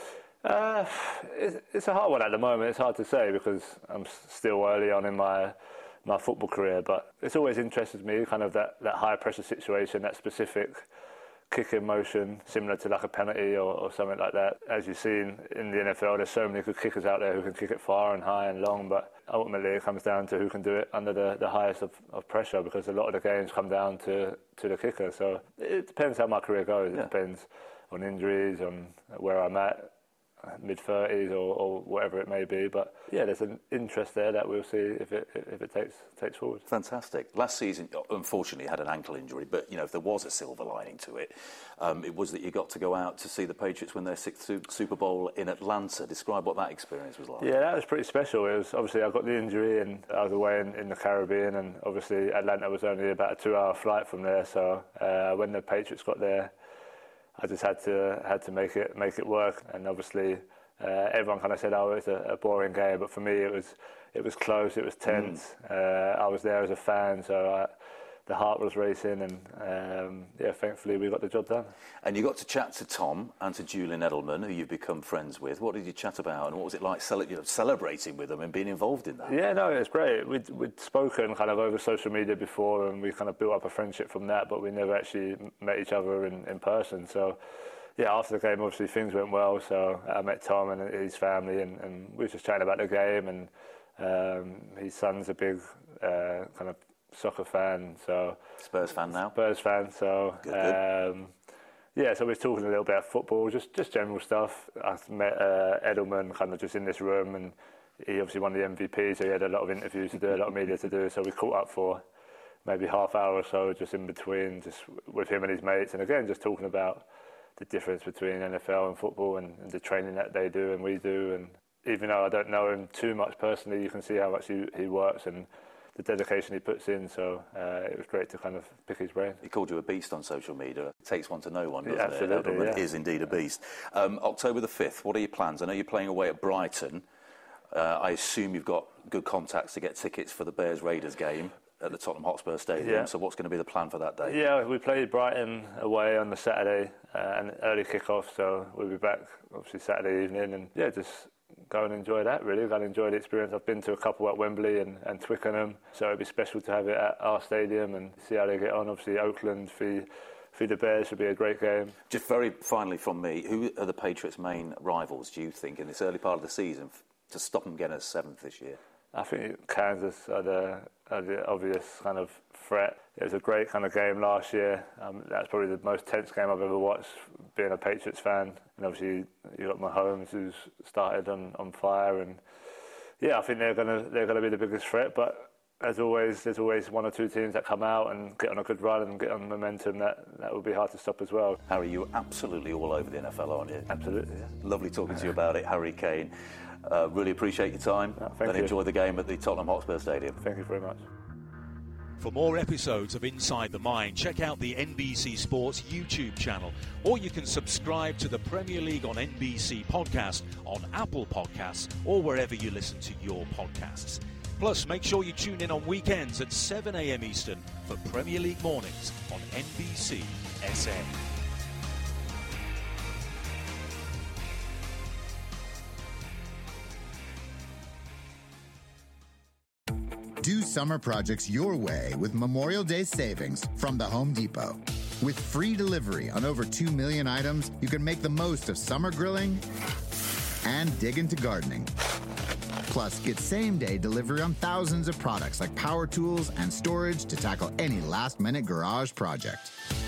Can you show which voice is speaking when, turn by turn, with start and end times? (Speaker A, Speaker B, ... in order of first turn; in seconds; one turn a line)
Speaker A: 0.4-10.8
Speaker A: 11.5-29.9
Speaker A: 30.5-36.6
Speaker B: 36.7-47.5
Speaker A: 47.4-56.5
Speaker A: 57.4-67.7
Speaker A: 68.3-71.7
Speaker B: 72.0-79.3
Speaker A: 79.3-87.4
Speaker A: 88.0-98.4
Speaker B: 98.6-99.3
Speaker A: 99.3-101.3
Speaker B: 100.4-100.8
Speaker A: 101.9-112.0
Speaker A: 112.6-117.0
Speaker A: 117.6-129.4
Speaker B: 129.4-137.0
Speaker A: 131.8-132.8
Speaker B: 137.7-144.4
Speaker A: 142.8-143.1
Speaker A: 144.2-162.0
Speaker B: 162.1-168.8
Speaker A: 169.1-182.4
Speaker A: 183.2-191.6
Speaker B: 191.7-193.9
Speaker A: 193.9-194.5
Speaker B: 194.6-196.3
Speaker B: 196.8-200.4
Speaker A: 198.2-198.7
Speaker A: 200.4-201.0
Speaker C: 202.2-221.2
Speaker D: 230.4-239.6
Speaker D: 240.6-241.9
Speaker D: 242.9-249.7